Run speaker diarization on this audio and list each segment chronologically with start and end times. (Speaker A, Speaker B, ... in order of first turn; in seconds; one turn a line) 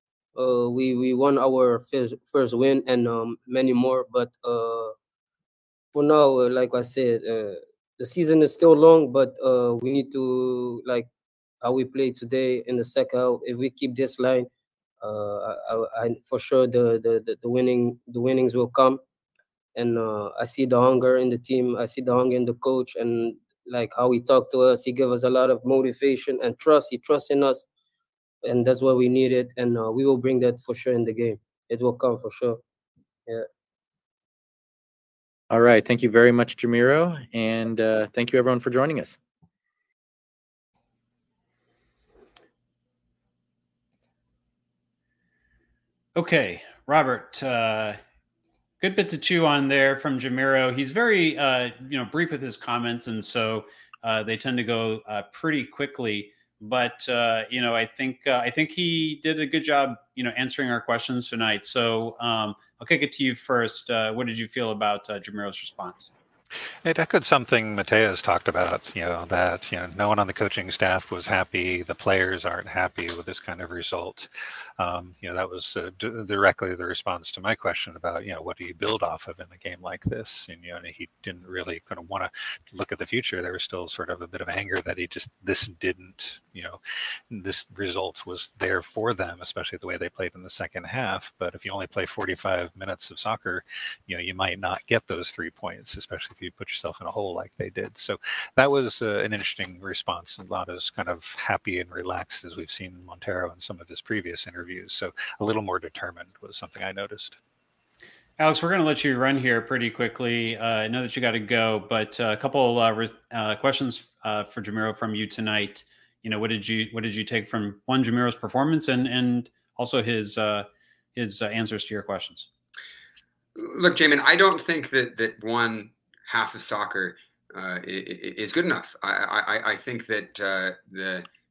Speaker A: 0.3-5.0
Speaker A: 5.9-11.1
Speaker A: 11.6-14.5
Speaker A: 15.0-19.0
Speaker A: 19.8-27.7
Speaker A: 28.4-32.6
Speaker B: 35.5-39.2
Speaker C: 46.1-48.0
Speaker C: 48.8-66.1
Speaker D: 66.8-107.4
Speaker C: 108.4-122.5
Speaker E: 123.6-131.3